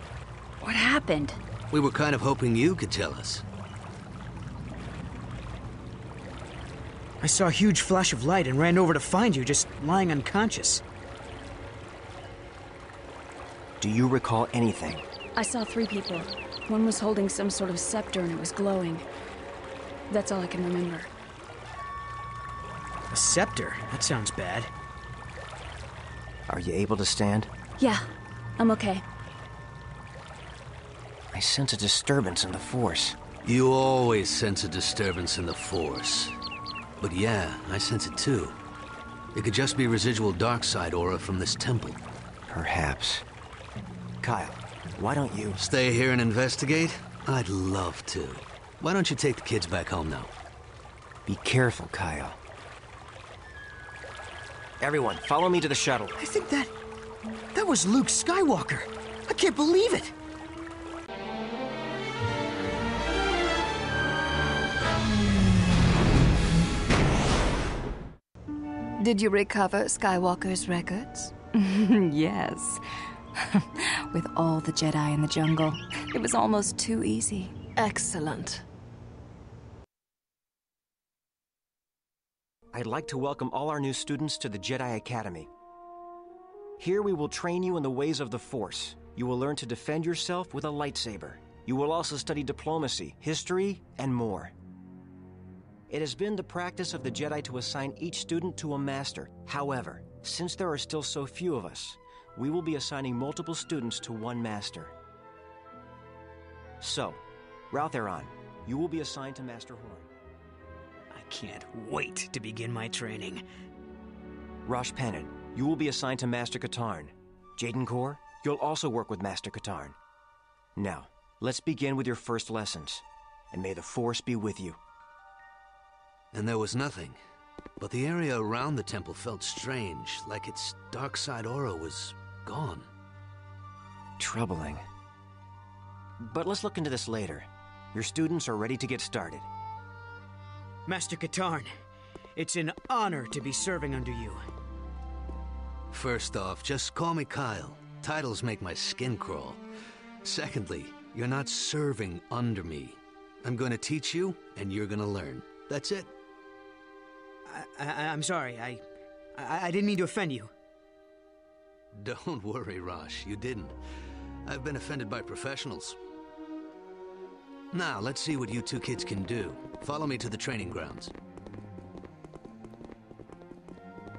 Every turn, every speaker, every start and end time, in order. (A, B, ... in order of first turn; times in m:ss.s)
0:00.6-0:01.4 A
0:01.7-0:03.4 B
0:07.2-0:10.8 C
0:13.8-0:15.0 D
0:15.4-0:19.1 A
0:20.1-0:21.1 A
0:23.1-0:24.7 C
0:26.5-0:27.5 D
0:27.8-0:28.0 A
0:28.6-0:29.0 A
0:31.3-0:33.2 D
0:33.4-0:36.4 B
0:37.0-0:38.6 B
0:39.3-0:42.0 B
0:42.5-0:43.3 D
0:44.2-0:45.6 D
0:45.6-0:50.3 B
0:51.3-0:52.4 D
0:54.8-0:56.2 D
0:56.2-0:56.7 C
0:57.5-1:00.1 C
1:09.0-1:12.8 E
1:13.4-1:18.6 E
1:22.7-1:25.5 D
1:26.8-1:34.5 D
1:35.9-1:44.9 D
1:46.8-1:47.2 D
1:47.7-1:50.1 D
1:51.1-1:53.4 C
1:54.6-2:00.0 D
2:00.8-2:04.8 D
2:06.3-2:07.2 B
2:07.8-2:12.9 B
2:14.2-2:14.8 D
2:16.2-2:19.5 D
2:20.9-2:21.7 C
2:22.4-2:24.4 C
2:25.9-2:29.6 B
2:30.2-2:36.1 B
2:37.5-2:38.8 C
2:39.4-2:40.5 C
2:41.9-2:43.8 B
2:44.5-2:46.0 B
2:47.7-2:51.1 B